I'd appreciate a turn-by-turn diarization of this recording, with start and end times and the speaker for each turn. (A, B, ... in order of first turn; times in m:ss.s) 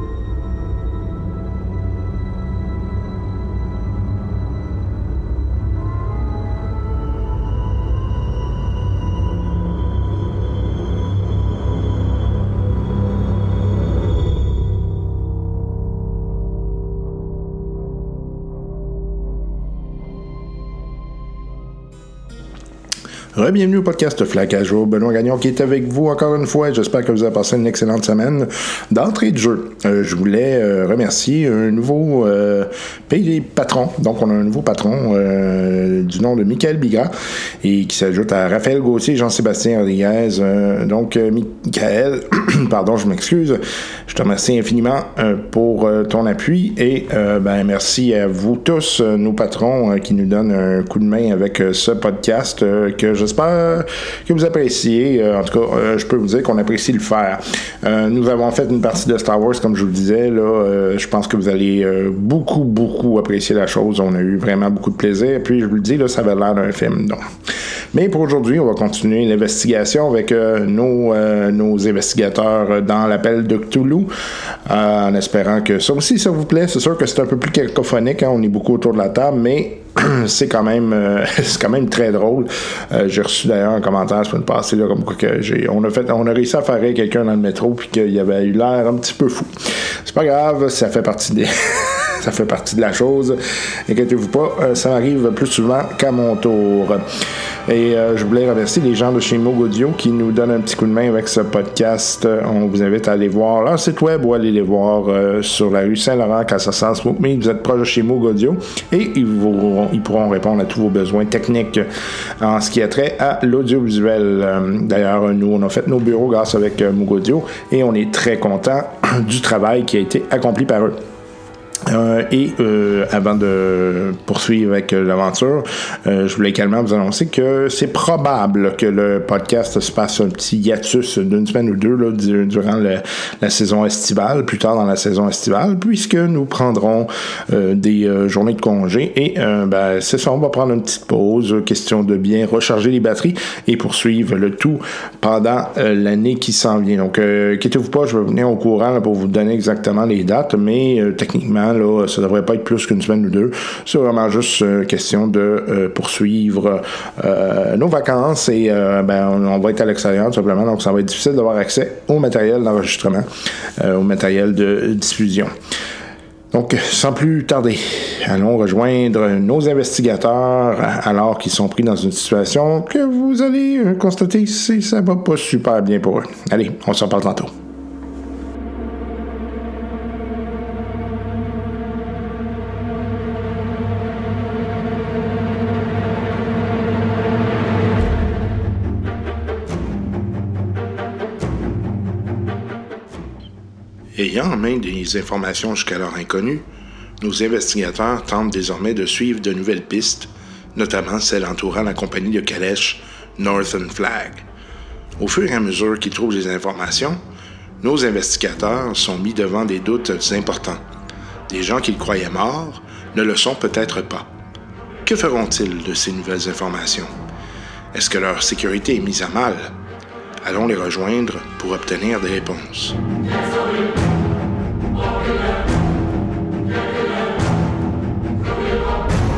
0:23.4-1:07.2 A
1:07.9-1:14.1 A
1:14.7-1:29.5 A
1:30.0-1:37.0 A
1:37.7-1:51.9 A
1:52.4-2:01.0 A
2:01.9-2:43.3 A
2:43.8-2:45.5 A
2:46.5-2:57.5 A
3:14.2-3:16.6 A
3:17.2-3:24.4 A
3:25.2-3:27.2 A
3:27.8-3:30.8 A
3:31.5-3:34.3 A
3:35.0-3:37.1 A
3:37.9-3:39.7 A
3:40.4-3:43.0 A